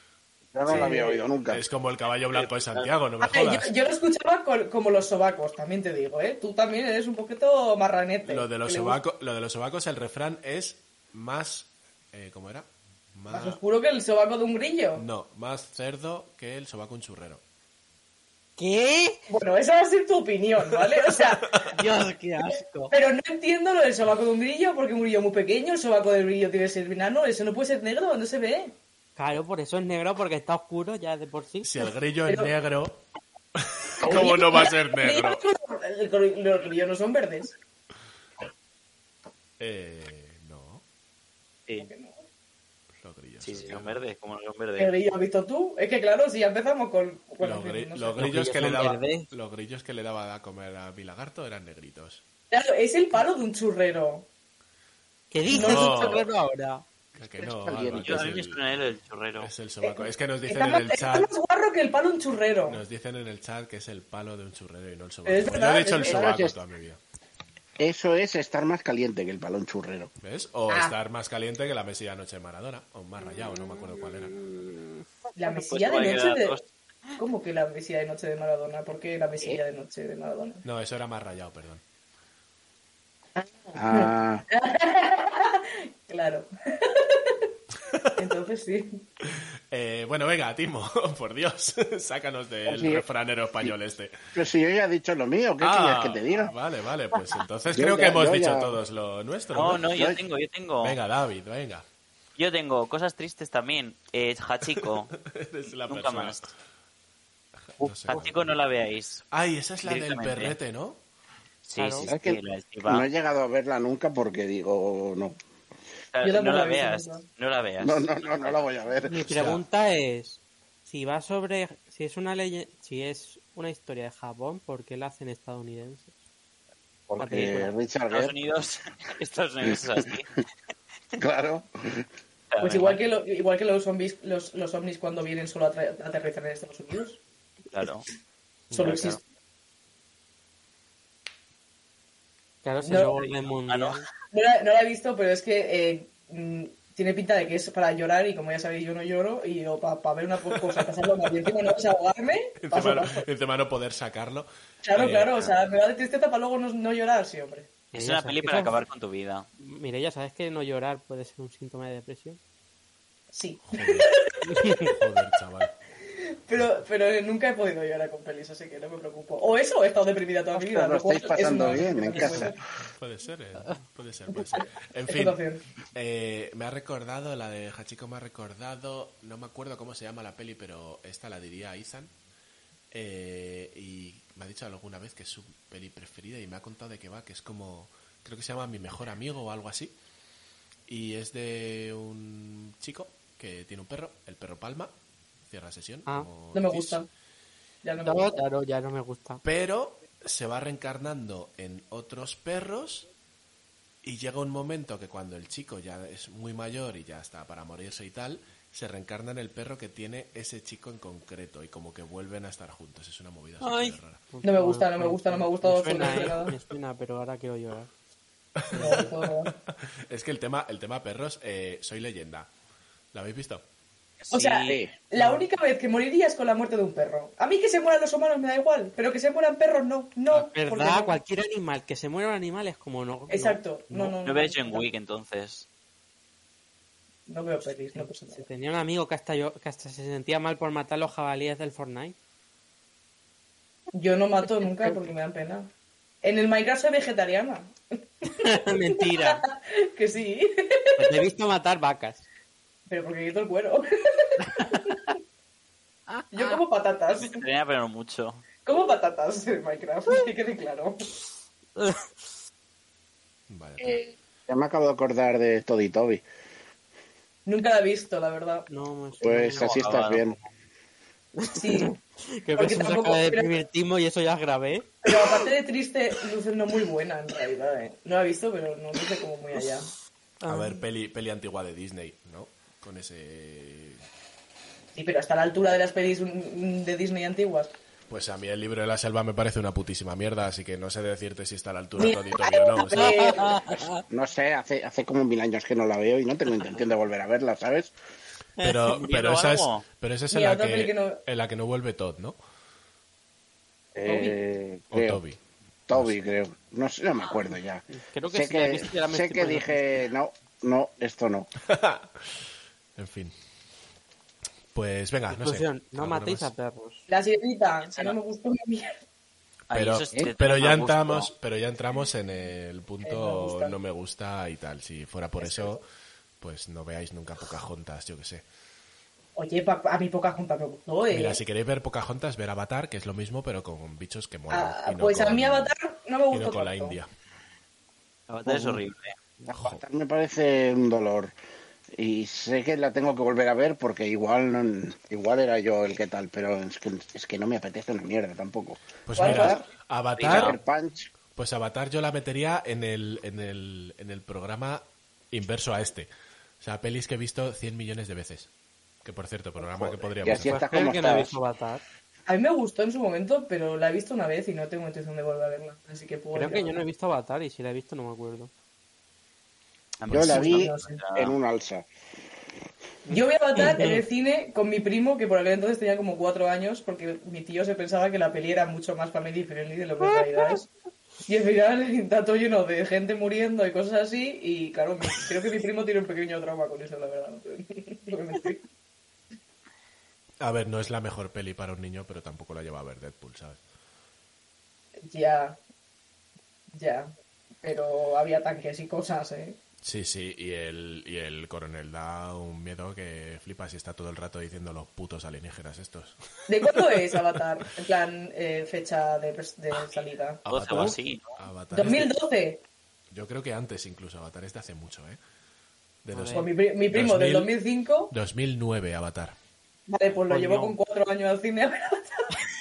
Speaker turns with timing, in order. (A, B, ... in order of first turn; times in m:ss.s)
0:00.5-0:01.6 A
0:00.7-0:01.0 B
0:00.7-0:01.3 C
0:01.5-0:03.7 B
0:03.2-0:09.0 C
0:08.2-0:13.6 B
0:13.3-0:15.1 C
0:15.0-0:17.4 B
0:18.6-0:19.2 D
0:19.3-0:21.6 C
0:21.7-0:23.0 D
0:22.9-0:28.8 C
0:29.2-0:31.7 D
0:31.6-0:33.0 B
0:32.3-0:32.5 C
0:33.6-0:35.4 B
0:34.0-0:37.6 C
0:39.6-0:40.8 B
0:41.8-0:42.2 C
0:43.0-0:44.0 B
0:43.4-0:45.0 E
0:44.8-0:48.3 C
0:47.4-0:52.2 B
0:48.2-0:49.3 D
0:52.5-0:54.3 C
0:55.3-0:56.8 D
0:55.5-0:56.3 B
0:55.5-0:56.2 C
0:57.2-0:58.6 B
0:57.4-0:58.3 A
0:58.0-0:59.5 E
0:59.4-1:01.3 B
0:59.8-1:02.8 C
1:02.7-1:07.0 B
1:05.3-1:06.4 C
1:06.0-1:06.6 A
1:07.8-1:10.1 A
1:10.2-1:14.4 B
1:10.7-1:11.0 C
1:15.4-1:16.6 C
1:15.6-1:16.7 E
1:17.2-1:20.6 C
1:20.6-1:21.8 B
1:23.4-1:27.4 C
1:23.8-1:24.4 A
1:27.9-1:28.2 B
1:28.2-1:29.0 C
1:29.3-1:34.2 B
1:32.7-1:33.0 A
1:34.4-1:36.5 A
1:35.6-1:39.9 B
1:37.7-1:38.8 A
1:39.5-1:41.0 E
1:39.9-1:40.2 A
1:40.8-1:41.8 B
1:42.4-1:45.1 E
1:45.2-1:46.5 B
1:45.9-1:46.4 E
1:47.7-1:48.6 B
1:47.8-1:48.2 A
1:48.1-1:49.2 E
1:49.3-1:51.0 B
1:49.8-1:50.6 E
1:51.6-1:53.1 E
1:51.8-1:52.1 D
1:52.0-1:55.4 A
1:56.1-1:58.7 E
1:56.2-1:57.2 C
1:57.8-1:59.6 A
1:59.1-2:06.2 D
1:59.4-1:59.6 B
2:07.1-2:08.3 A
2:07.2-2:07.7 D
2:07.3-2:10.4 E
2:09.6-2:10.0 A
2:11.2-2:12.1 A
2:12.5-2:13.0 E
2:12.6-2:17.2 C
2:17.7-2:18.1 E
2:18.7-2:19.0 B
2:18.7-2:19.2 C
2:18.8-2:19.2 E
2:22.6-2:24.1 D
2:22.8-2:23.2 C
2:23.7-2:24.0 E
2:24.3-2:33.3 C
2:32.6-2:35.6 B
2:34.8-2:37.7 C
2:37.9-2:38.8 D
2:38.0-2:39.5 E
2:39.6-2:42.4 D
2:43.3-2:44.9 C
2:43.7-2:44.1 B
2:44.5-2:44.8 D
2:44.8-2:45.7 B
2:46.5-2:52.6 C
2:50.5-2:52.6 A
2:51.7-2:55.4 B
2:54.4-2:55.6 C
2:55.9-3:02.1 B
3:02.9-3:09.9 B
3:10.9-3:14.9 B
3:15.4-3:17.0 B
3:16.5-3:17.1 C
3:17.8-3:18.4 C
3:18.0-3:19.4 D
3:19.4-3:23.1 B
3:24.0-3:34.2 B
3:33.6-3:37.9 D
3:34.4-3:36.5 C
3:38.6-3:39.5 B
3:38.7-3:39.1 D
3:38.7-3:39.5 C
3:40.1-3:42.5 B
3:43.1-3:43.6 B
3:44.2-3:44.8 E
3:44.3-3:51.2 C
3:44.7-3:44.9 A
3:45.2-3:45.4 D
3:50.3-3:54.2 D
3:53.3-3:54.9 C
3:54.2-3:55.7 E
3:57.3-3:58.4 C
3:58.0-4:02.2 D
4:03.9-4:05.7 C
4:06.2-4:11.1 C
4:08.3-4:09.4 D
4:11.0-4:12.2 D
4:12.9-4:15.0 C
4:14.5-4:15.0 D
4:16.1-4:16.6 D
4:16.3-4:17.4 C
4:17.1-4:18.5 E
4:18.6-4:21.0 C
4:21.8-4:22.1 D
4:23.5-4:24.0 B
4:23.8-4:26.2 A
4:27.5-4:28.7 C
4:28.7-4:30.1 D
4:29.2-4:30.4 A
4:29.6-4:30.4 E
4:31.4-4:35.4 D
4:31.6-4:32.0 C
4:32.6-4:33.5 C
4:35.0-4:39.9 C
4:40.4-4:40.8 D
4:40.5-4:44.0 B
4:45.0-4:47.7 C
4:48.1-4:53.2 B
4:52.0-4:53.6 C
4:52.9-4:54.0 D
4:54.1-4:57.9 A
4:58.6-4:59.0 D
4:58.6-5:02.4 B
4:59.0-4:59.9 E
5:00.3-5:01.2 C
5:04.0-5:05.2 A
5:04.0-5:04.4 C
5:04.9-5:05.4 B
5:05.9-5:11.5 A
5:07.9-5:10.0 D
5:11.6-5:12.2 B
5:13.0-5:13.4 B
5:14.7-5:16.5 B
5:15.3-5:17.1 D
5:17.1-5:19.0 C
5:17.9-5:18.2 E
5:19.7-5:21.3 E
5:19.7-5:25.8 B
5:23.0-5:23.8 C
5:25.4-5:25.8 C
5:26.4-5:28.4 B
5:29.4-5:31.4 C
5:31.1-5:35.7 B
5:34.5-5:37.0 C
5:36.3-5:37.1 B
5:38.3-5:39.2 E
5:38.4-5:38.8 A
5:39.5-5:41.3 A
5:39.5-5:39.8 B
5:41.9-5:49.7 A
5:49.1-5:50.6 B
5:49.2-5:49.7 C
5:50.2-5:50.6 E
5:50.3-5:51.1 A
5:51.3-5:56.1 B
5:56.6-5:58.5 B
5:59.0-6:00.6 B
5:59.6-6:01.4 A
6:00.3-6:01.8 D
6:02.3-6:06.8 C
6:06.3-6:08.5 D
6:10.0-6:11.4 E
6:10.1-6:10.5 B
6:10.1-6:11.9 A
6:10.4-6:11.0 C
6:13.1-6:14.0 D
6:13.1-6:20.7 C
6:20.0-6:20.5 D
6:21.2-6:28.6 C
6:30.4-6:33.6 B
6:35.1-6:35.6 C
6:36.7-6:39.6 C
6:39.8-6:47.2 B
6:46.5-6:50.4 C
6:50.5-6:51.4 E
6:50.5-6:52.1 B
6:51.7-6:52.6 C
6:53.1-6:55.2 B
6:56.0-6:57.6 B
6:56.1-6:56.5 D
6:56.3-6:58.1 C
6:58.1-6:59.4 B
6:59.9-7:02.3 C
7:00.3-7:00.8 D